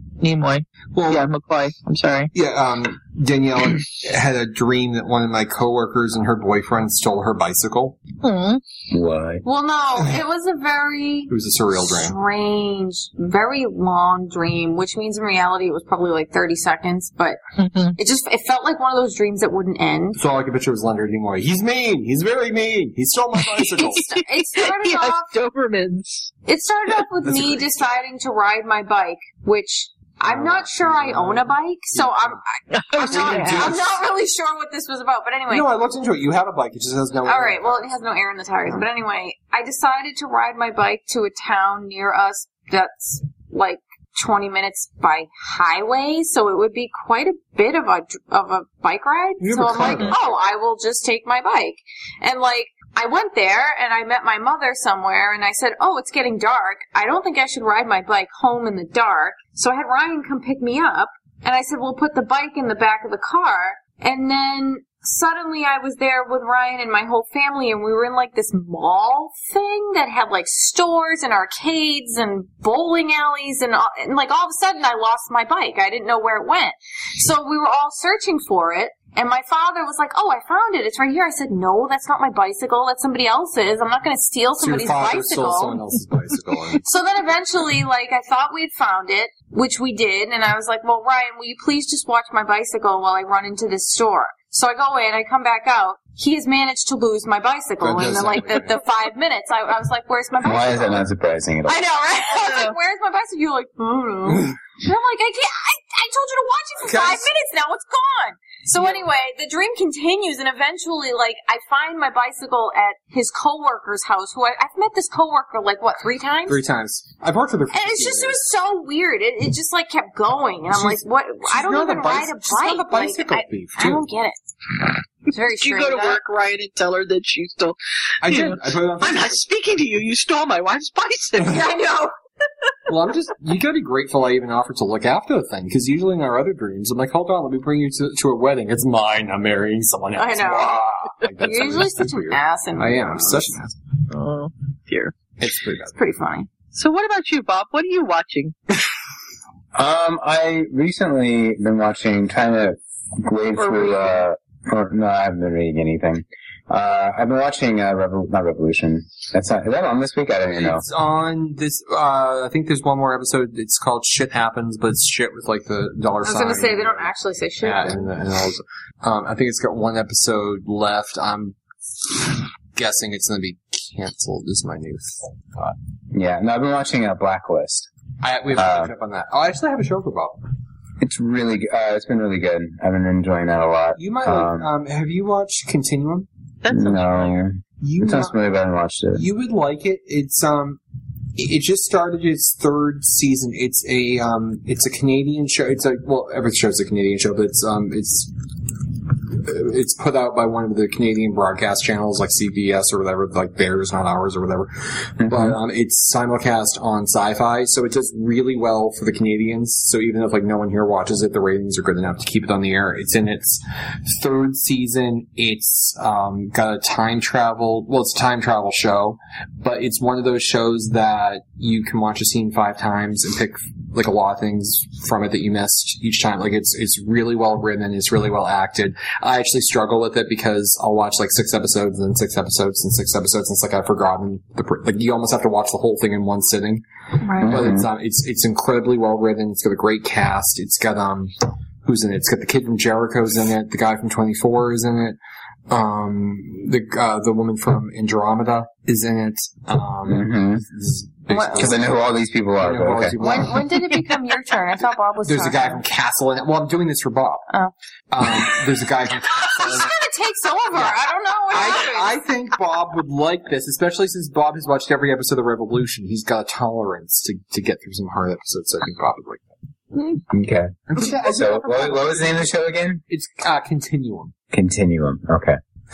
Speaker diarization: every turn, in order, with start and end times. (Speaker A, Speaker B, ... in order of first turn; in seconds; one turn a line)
Speaker A: 0.2-2.3
Speaker B: 0.9-1.2
Speaker B: 2.3-8.0
Speaker A: 8.2-8.6
Speaker C: 8.9-9.4
Speaker D: 9.4-17.4
Speaker B: 11.3-12.2
Speaker A: 17.6-17.9
Speaker D: 18.0-20.2
Speaker B: 20.2-24.0
Speaker A: 23.4-26.3
Speaker D: 23.8-25.4
Speaker D: 26.5-35.7
Speaker B: 27.2-27.9
Speaker B: 30.2-32.4
Speaker A: 32.7-33.8
Speaker B: 33.0-34.0
Speaker B: 35.5-37.8
Speaker D: 37.2-85.8
Speaker B: 49.4-50.4
Speaker A: 49.8-50.1
Speaker B: 84.6-86.8
Speaker D: 86.8-101.1
Speaker B: 97.8-98.8
Speaker C: 100.4-101.8
Speaker D: 101.7-116.6
Speaker A: 102.3-102.7
Speaker B: 106.8-107.3
Speaker B: 108.8-109.0
Speaker B: 116.5-118.4
Speaker D: 117.7-124.4
Speaker B: 120.7-124.0
Speaker D: 125.2-126.2
Speaker A: 125.6-131.7
Speaker B: 128.2-129.4
Speaker D: 131.4-132.1
Speaker B: 132.9-143.8
Speaker D: 140.2-140.8
Speaker D: 141.4-143.6
Speaker A: 144.1-145.1
Speaker B: 145.4-146.0
Speaker D: 145.9-146.5
Speaker A: 146.7-148.5
Speaker C: 149.7-160.8
Speaker A: 153.6-154.2
Speaker B: 160.6-175.8
Speaker D: 166.2-168.1
Speaker C: 176.1-177.9
Speaker B: 178.2-180.4
Speaker C: 178.5-178.9
Speaker C: 181.0-184.7
Speaker B: 184.0-186.3
Speaker A: 186.6-187.3
Speaker C: 186.7-189.2
Speaker B: 187.8-188.3
Speaker B: 189.1-190.8
Speaker B: 191.3-198.3
Speaker B: 199.1-236.8
Speaker C: 205.2-205.6
Speaker D: 237.2-237.6
Speaker B: 237.3-245.2
Speaker C: 237.4-237.9
Speaker B: 245.7-252.0
Speaker C: 250.1-250.6
Speaker D: 251.3-251.8
Speaker C: 251.6-253.2
Speaker B: 252.6-254.1
Speaker D: 253.2-255.8
Speaker B: 255.2-257.5
Speaker B: 258.1-260.0
Speaker D: 258.2-258.6
Speaker D: 259.3-262.2
Speaker B: 260.7-261.0
Speaker B: 261.5-269.5
Speaker C: 270.3-273.0
Speaker B: 270.9-272.5
Speaker B: 273.1-274.3
Speaker C: 274.5-275.6